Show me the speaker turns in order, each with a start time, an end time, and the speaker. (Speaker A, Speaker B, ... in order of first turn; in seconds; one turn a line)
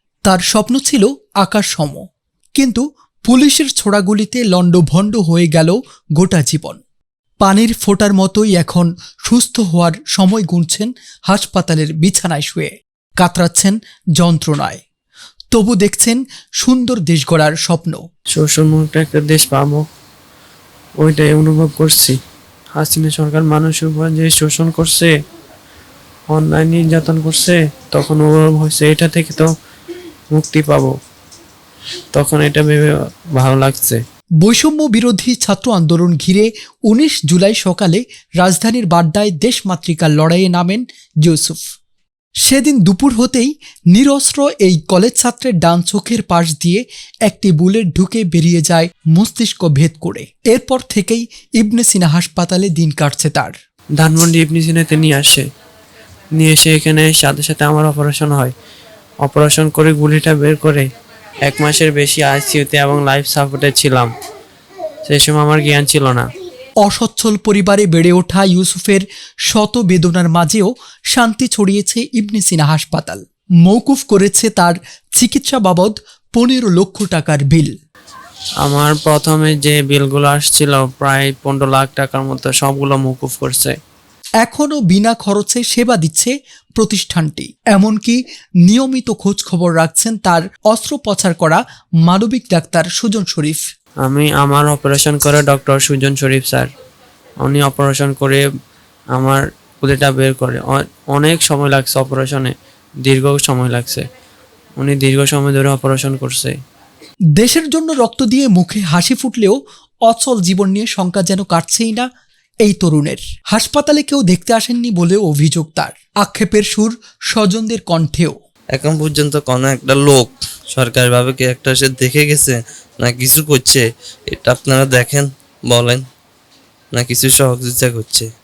Speaker A: 0.3-2.0
Speaker A: 2.6-6.8
Speaker A: 7.4-14.8
Speaker A: 15.5-18.0
Speaker B: 18.3-19.8
Speaker B: 21.0-22.2
Speaker B: 22.7-25.1
Speaker B: 26.3-29.5
Speaker B: 30.3-30.9
Speaker B: 32.1-34.0
Speaker A: 34.4-41.6
Speaker A: 42.5-53.5
Speaker B: 54.0-55.5
Speaker B: 56.3-58.5
Speaker B: 59.2-60.9
Speaker B: 61.4-64.1
Speaker B: 65.0-66.3
Speaker A: 66.8-77.7
Speaker B: 78.6-83.8
Speaker A: 84.4-93.6
Speaker B: 94.0-96.7
Speaker B: 97.4-98.4
Speaker B: 99.1-102.5
Speaker B: 103.0-104.1
Speaker B: 104.8-106.6
Speaker A: 107.4-112.1
Speaker A: 112.7-118.3
Speaker C: 118.7-126.0
Speaker C: 126.9-128.3